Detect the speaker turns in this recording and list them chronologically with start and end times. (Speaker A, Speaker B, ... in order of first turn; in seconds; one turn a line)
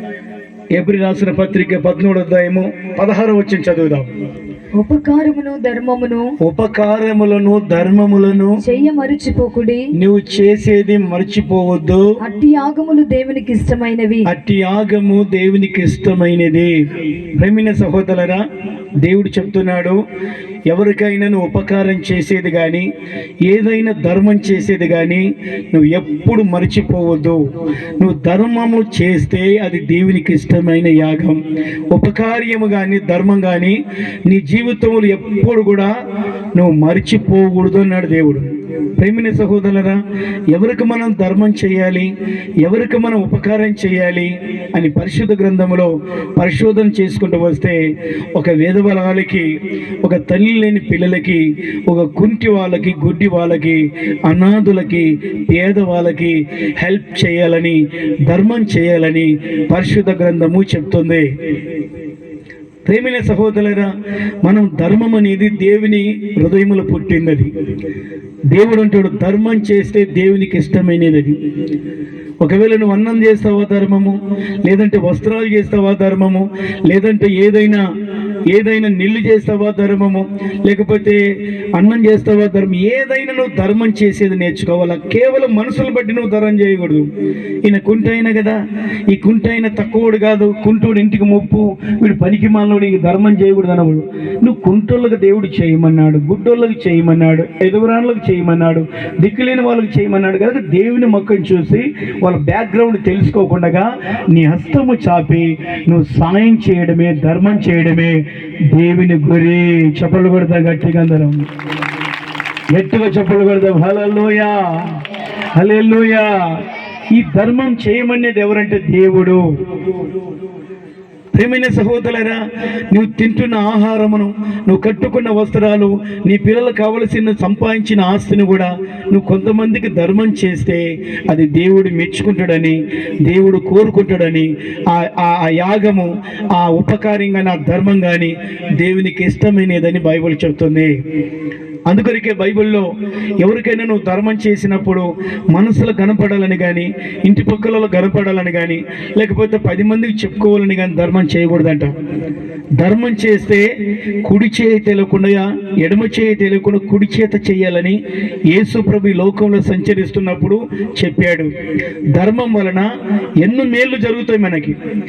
Speaker A: 0.7-4.1
Speaker B: 4.8-6.3
Speaker A: 6.4-8.6
Speaker B: 8.6-9.9
Speaker A: 9.9-12.0
Speaker B: 12.2-14.3
Speaker A: 14.3-16.9
Speaker A: 17.4-18.4
Speaker A: 19.0-20.0
Speaker A: 20.7-22.9
Speaker A: 23.4-27.4
Speaker A: 28.0-31.4
Speaker A: 31.9-35.9
Speaker A: 36.5-42.1
Speaker A: 42.6-47.8
Speaker A: 48.4-49.5
Speaker A: 50.0-61.3
Speaker A: 62.9-63.9
Speaker A: 64.4-67.5
Speaker A: 68.5-71.3
Speaker A: 72.4-77.8
Speaker A: 78.5-81.2
Speaker A: 81.8-87.1
Speaker A: 87.6-88.6
Speaker A: 89.1-111.4
Speaker A: 112.7-115.0
Speaker A: 115.5-116.6
Speaker A: 117.1-119.4
Speaker A: 121.3-141.0
Speaker A: 141.9-142.9
Speaker A: 143.4-151.9
Speaker A: 152.8-153.6
Speaker A: 154.2-158.0
Speaker A: 158.5-161.5
Speaker A: 162.1-162.9
Speaker A: 163.4-164.8